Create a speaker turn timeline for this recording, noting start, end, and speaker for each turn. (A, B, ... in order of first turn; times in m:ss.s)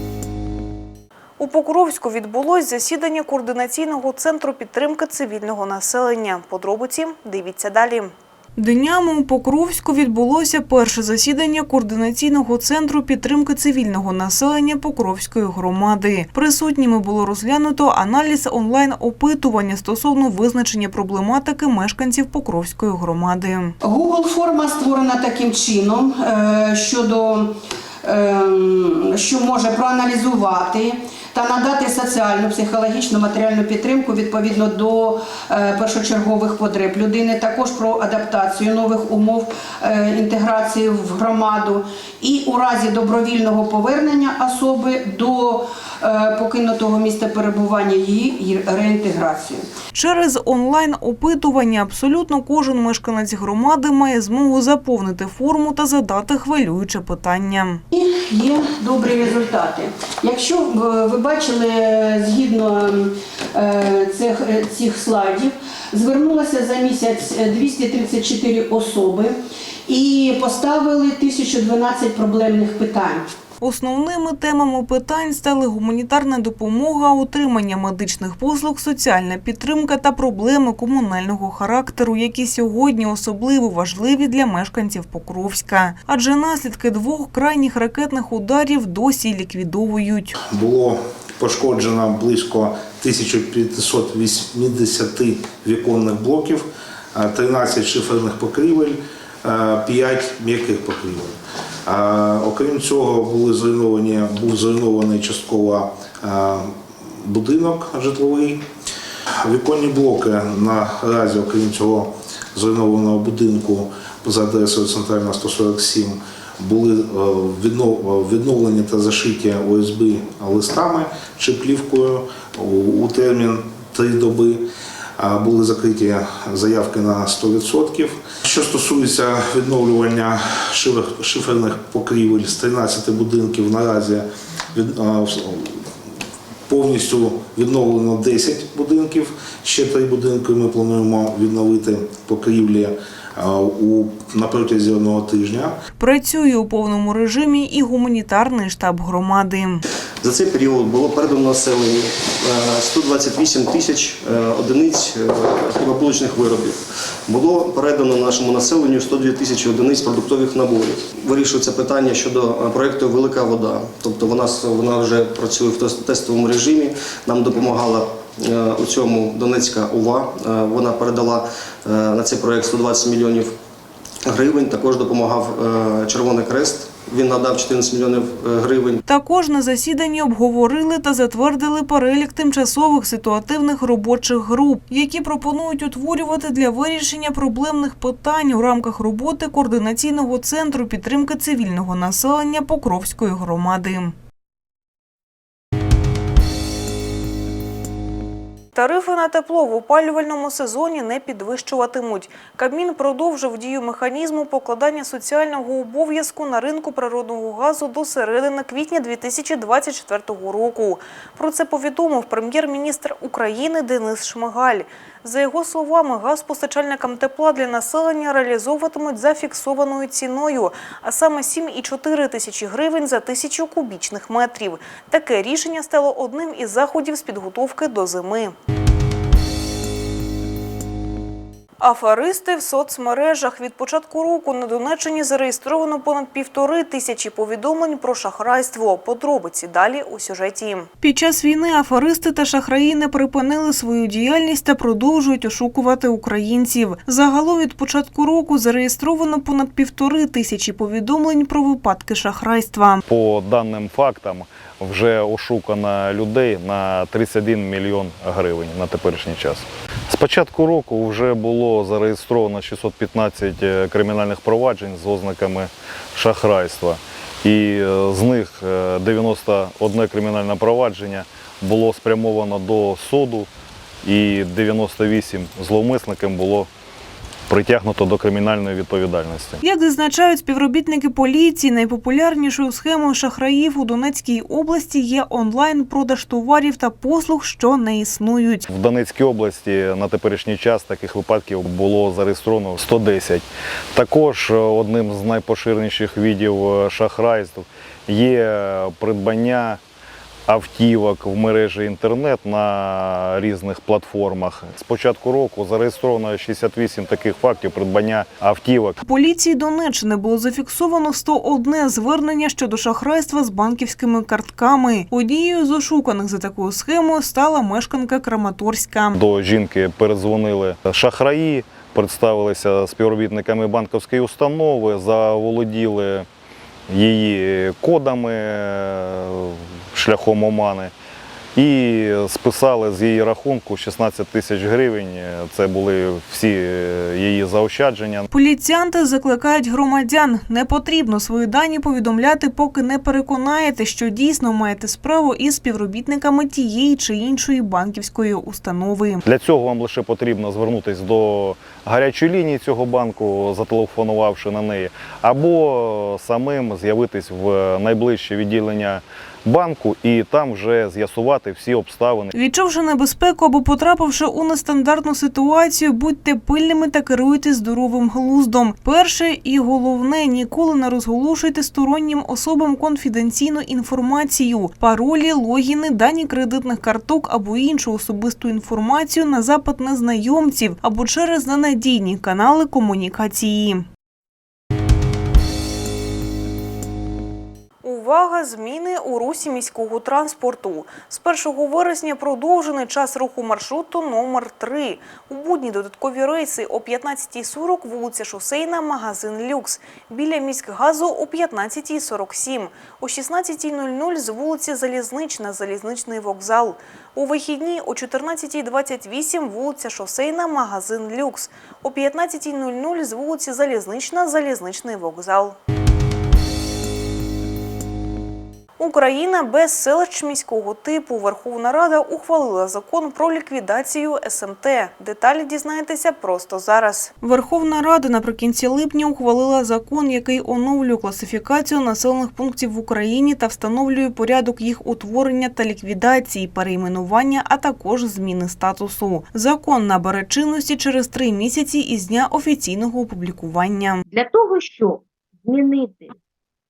0:01.4-0:23.7 A
0:23.8-0:49.7 B
0:49.9-0:57.8 A
0:57.9-1:09.4 B
1:09.9-1:13.3 B
1:13.6-1:30.4 A
1:30.5-1:41.3 C
1:41.8-1:48.6 C
1:49.4-2:04.6 C
2:05.2-2:15.9 C
2:16.7-2:25.7 C
2:26.0-2:29.8 A
2:30.2-2:53.5 D
2:54.2-2:59.0 D
2:59.0-3:14.1 A
3:18.7-3:48.5 A
3:51.8-4:13.0 A
4:13.1-4:33.5 E
4:34.0-4:36.7 E
4:37.5-4:39.6 E
4:39.6-4:48.6 A
4:48.7-4:59.8 E
5:00.5-5:09.0 E
5:09.0-5:19.2 A
5:19.2-5:26.2 E
5:26.9-5:30.9 E
5:31.6-5:38.3 E
5:38.3-5:49.2 A
5:49.2-6:02.3 E
6:02.3-6:23.8 A
6:27.8-6:55.6 A
6:58.8-7:24.0 A
7:24.1-7:26.1 F